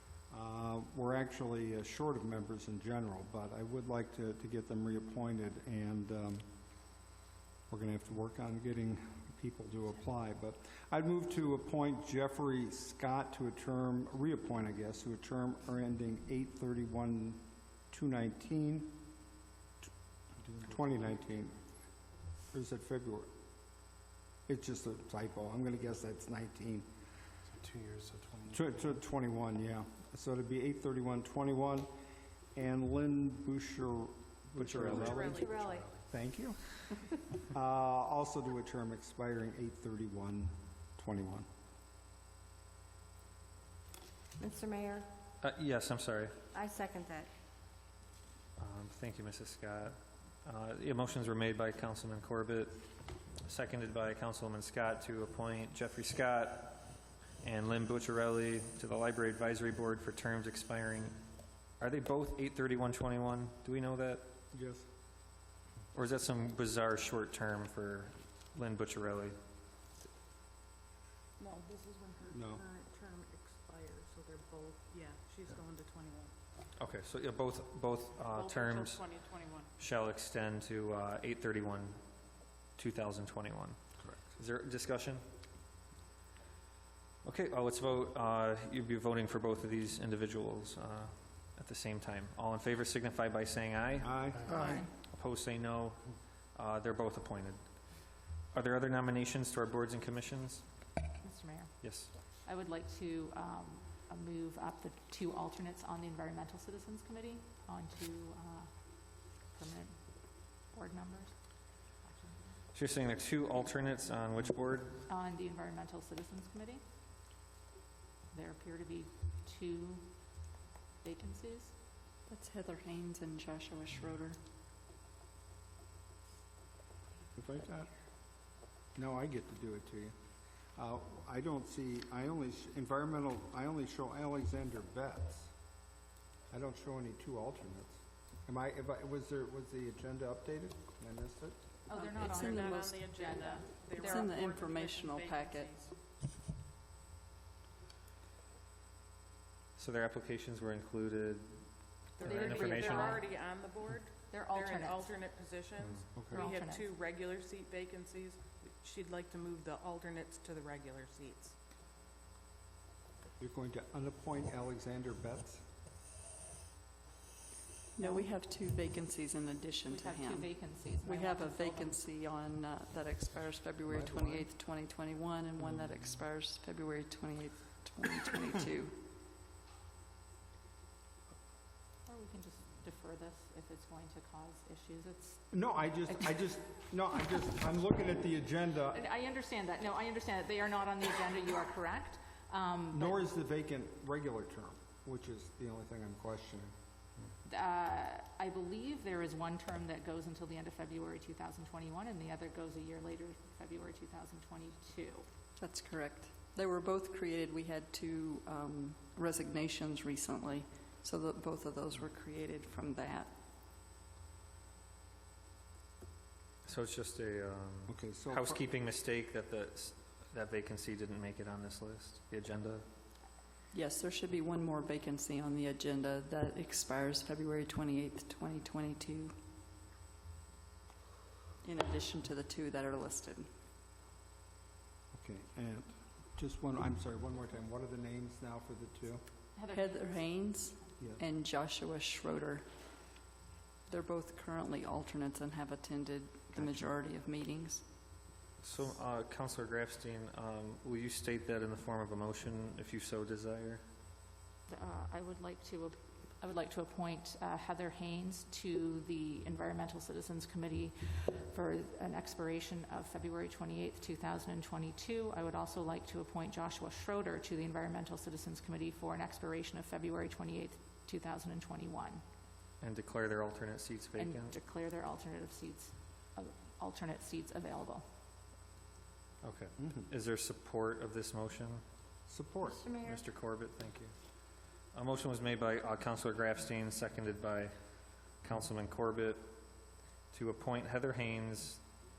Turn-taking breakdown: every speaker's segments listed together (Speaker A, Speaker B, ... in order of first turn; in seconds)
Speaker A: 0.3-6.5, 7.7-19.0, 20.6-21.6, 22.5-23.3, 24.5-26.9, 28.5-31.9, 32.5-35.5, 36.1-36.7, 37.4-41.5, 64.5-64.9, 72.3-72.6, 94.0-94.8, 127.3-127.9, 128.9-130.2, 130.8-135.5, 136.5-141.6, 156.2-156.4, 163.4-165.6, 173.9-174.5, 185.5-189.0, 192.9-196.7, 217.9-218.6, 235.1-239.2, 279.8-280.1, 282.3-282.9
Speaker B: 27.5-28.7, 34.6-35.9
Speaker C: 34.6-35.2, 45.4-46.4, 48.6-52.9, 53.5-56.9, 57.4-61.1, 61.8-64.3, 65.9-69.4, 76.8-79.1, 79.8-82.0, 82.8-83.8, 84.3-85.2, 87.2-94.5, 95.1-96.0, 96.5-97.6, 98.5-100.6, 101.8-102.1, 112.7-115.0, 149.8-151.6, 152.2-153.2, 216.7-222.8, 248.6-253.8, 272.8-274.5, 279.4-281.8, 283.0-284.1, 284.9-287.7, 288.4-289.5, 290.3-291.8
Speaker D: 34.9-35.9, 44.4-45.1, 46.5-47.3, 282.6-283.2
Speaker E: 35.1-35.5, 71.4-76.3, 78.3-79.7, 142.0-145.9, 152.2-161.6
Speaker F: 94.5-94.9, 101.2-101.7, 102.5-108.7, 109.5-109.9, 110.7-111.3, 112.0-112.6, 115.1-116.8, 118.3-120.1, 121.0-121.7, 141.9-144.3, 152.2-153.4, 154.3-155.2, 156.3-156.9, 168.0-168.3, 169.9-172.0, 182.1-186.4, 188.9-193.3, 197.4-205.2, 239.6-240.2, 254.7-272.2, 274.1-278.0
Speaker G: 122.3-124.4, 142.0-143.1, 144.0-145.7, 168.0-178.9, 205.6-213.3, 223.7-229.3, 231.6-233.5, 239.7-242.6, 243.9-247.8